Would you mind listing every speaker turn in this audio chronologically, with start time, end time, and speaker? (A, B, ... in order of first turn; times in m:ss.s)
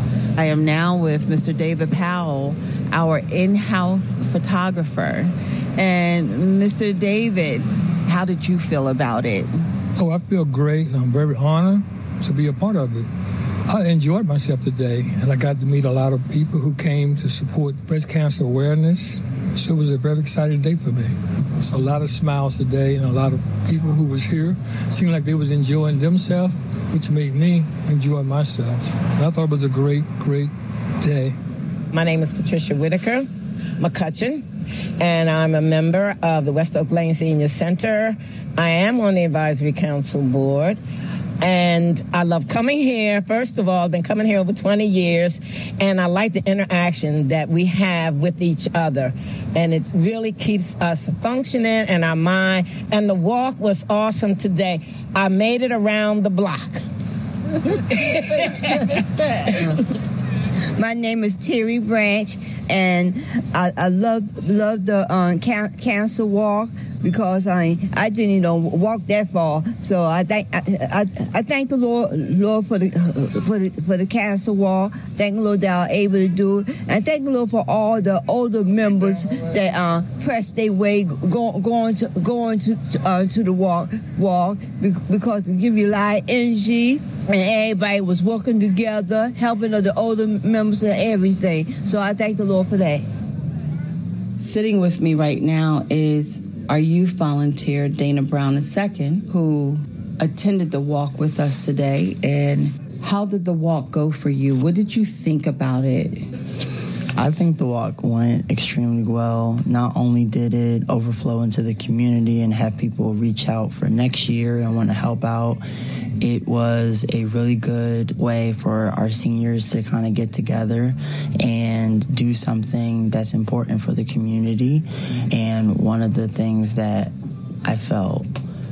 0:00.4-0:09.5 A
0:10.0-0:13.1 B
0:13.6-0:31.4 B
0:31.9-0:33.3 C
0:33.8-0:34.4 C
0:35.0-0:40.8 C
0:41.4-0:56.8 C
0:58.1-0:58.7 C
1:00.8-1:33.0 D
1:34.4-1:46.3 A
1:47.2-1:55.6 E
1:56.2-2:07.1 E
2:07.6-2:08.3 E